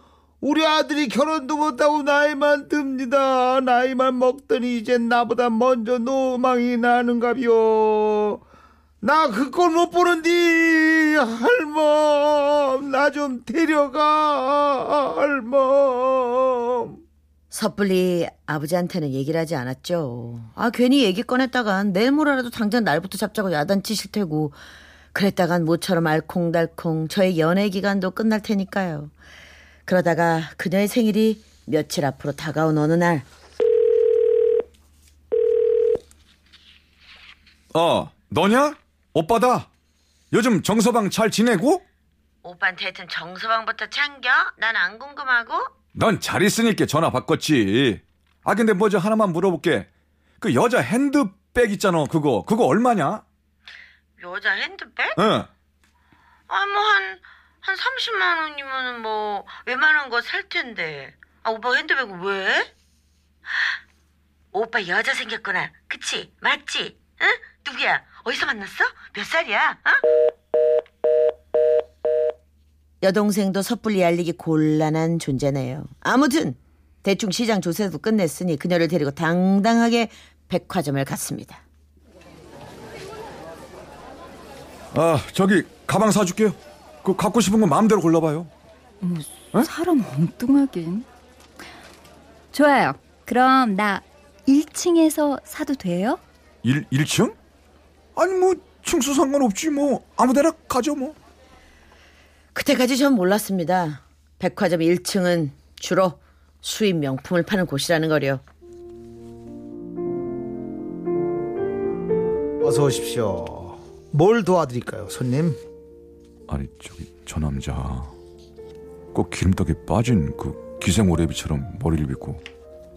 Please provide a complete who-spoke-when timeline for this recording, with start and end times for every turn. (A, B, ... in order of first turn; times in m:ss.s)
0:00.4-0:08.4 A
0:09.0-0:17.0 A
0:17.5-0:24.6 B
0:25.1-0:29.1 B
0:29.9-0:33.2 B
0:37.7-0:39.7 C
0:40.3-0:41.8 C
0:42.4-0:45.7 B
0:46.0-0:49.9 C
0:50.4-0:53.2 C
0:54.2-0:55.2 B
0:55.2-0:55.5 C
0:56.5-1:02.7 B
1:04.5-1:10.0 B
1:13.0-1:21.6 B
1:24.9-1:28.5 C
1:29.0-1:31.1 D
1:32.5-1:36.2 D
1:36.6-1:37.4 C
1:38.2-1:41.2 C
1:42.6-1:48.4 B
1:52.6-1:55.6 A
1:56.5-1:58.1 C
1:59.1-2:02.4 C